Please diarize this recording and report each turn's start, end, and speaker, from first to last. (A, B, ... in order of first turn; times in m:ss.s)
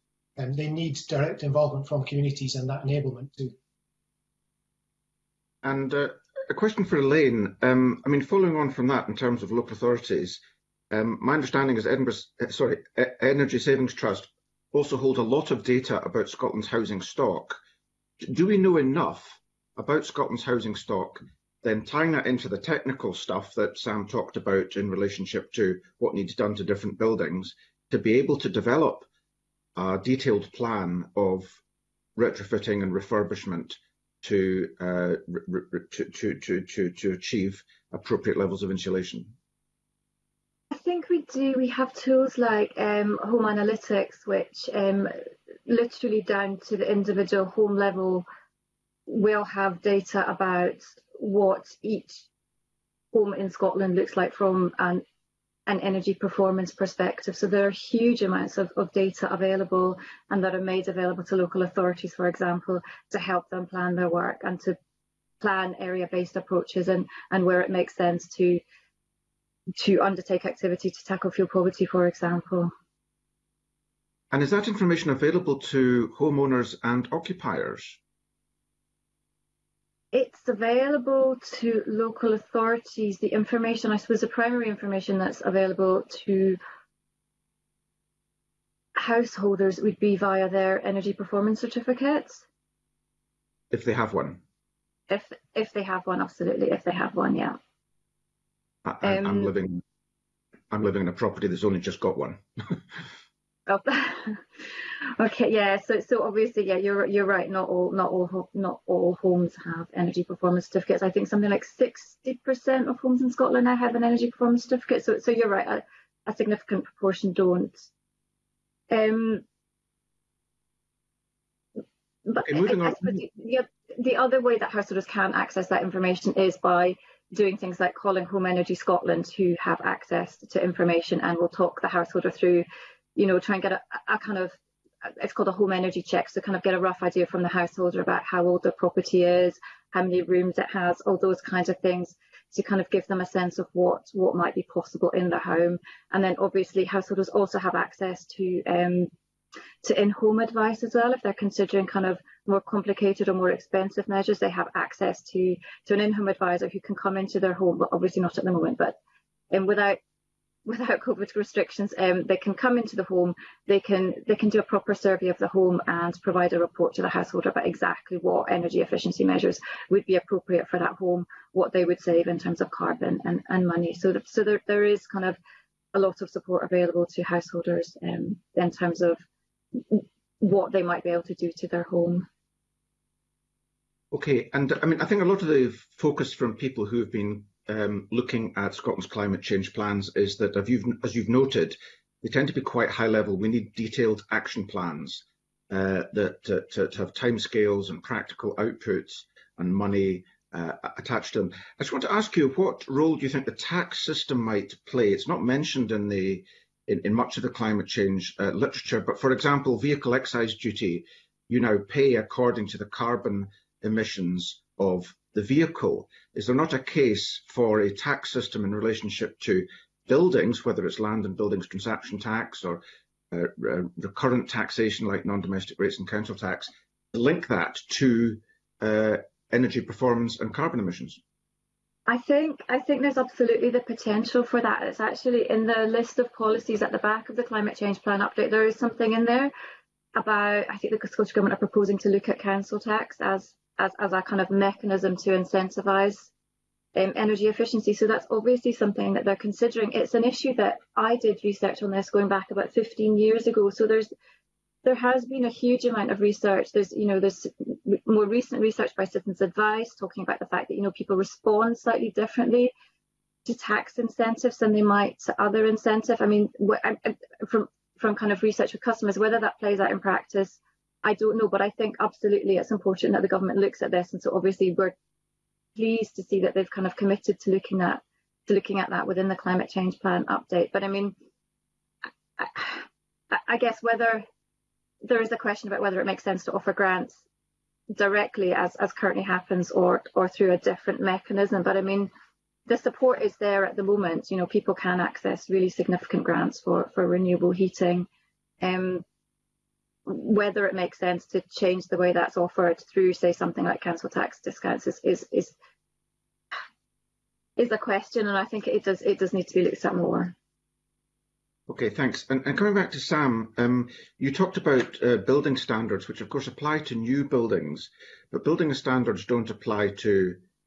0:00.4-0:03.5 A
0:05.6-0:17.6 B
0:18.2-0:29.1 B
0:29.8-0:31.6 B
0:32.2-0:39.3 B
0:40.7-0:45.1 C
0:45.6-0:48.2 C
0:49.1-0:52.2 C
0:53.1-0:55.0 C
0:55.7-1:04.8 C
1:05.4-1:08.6 C
1:09.8-1:12.7 C
1:14.3-1:18.0 B
1:20.1-1:26.6 C
1:29.0-1:32.4 C
1:33.7-1:34.4 B
1:35.1-1:37.6 C
1:38.8-1:39.8 B
1:39.0-1:39.5 C
1:40.7-1:42.8 B
1:43.7-1:44.4 C
1:45.2-1:57.8 C
1:58.9-1:59.4 C
2:02.2-2:14.5 C
2:02.4-2:03.2 B
2:15.0-2:29.1 C
2:29.8-2:39.0 C
2:39.5-2:40.0 C
2:40.6-2:55.4 C
2:55.9-2:59.2 C
2:59.7-3:02.3 C
3:04.1-3:51.2 B
3:52.1-3:59.5 C
4:00.1-4:06.3 C
4:06.9-4:14.1 C
4:14.8-4:22.7 C
4:23.4-4:34.9 C
4:35.7-4:41.1 C
4:42.4-4:44.2 C
4:45.0-4:47.2 C
4:47.9-4:52.1 C
4:52.7-4:58.1 C
4:58.6-4:59.0 C
5:00.0-5:05.5 C
5:07.6-5:10.3 C
5:11.7-5:20.4 B